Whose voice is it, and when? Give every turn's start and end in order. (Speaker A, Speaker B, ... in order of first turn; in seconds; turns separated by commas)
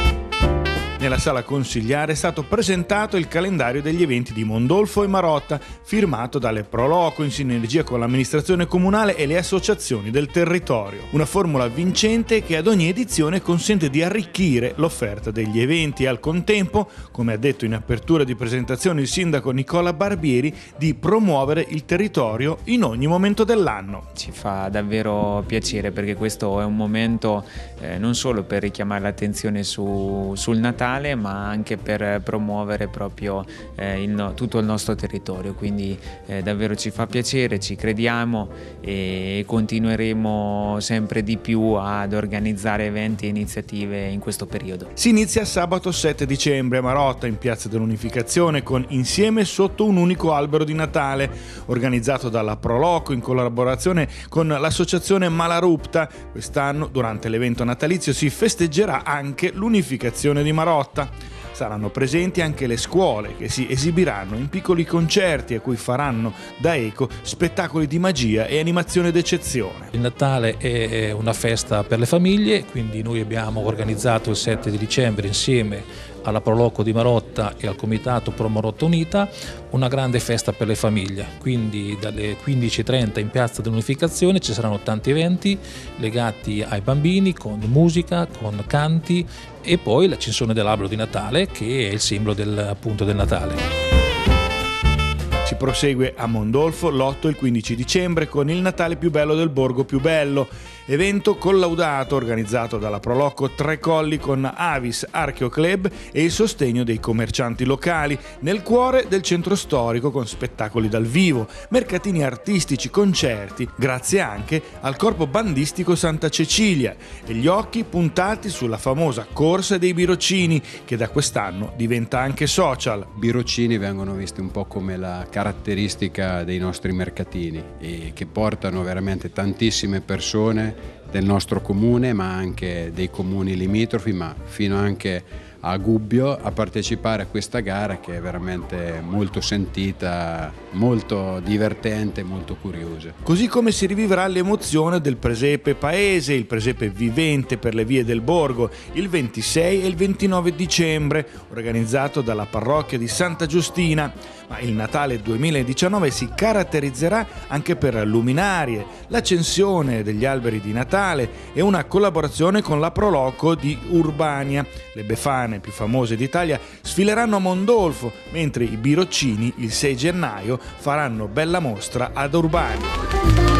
Speaker A: 1.0-24.1, Speaker B: 24.1-44.9, Speaker A: 45.0-69.9, Speaker C: 69.9-93.6, Speaker A: 95.4-123.1, Speaker D: 123.1-143.2, Speaker A: 143.2-172.9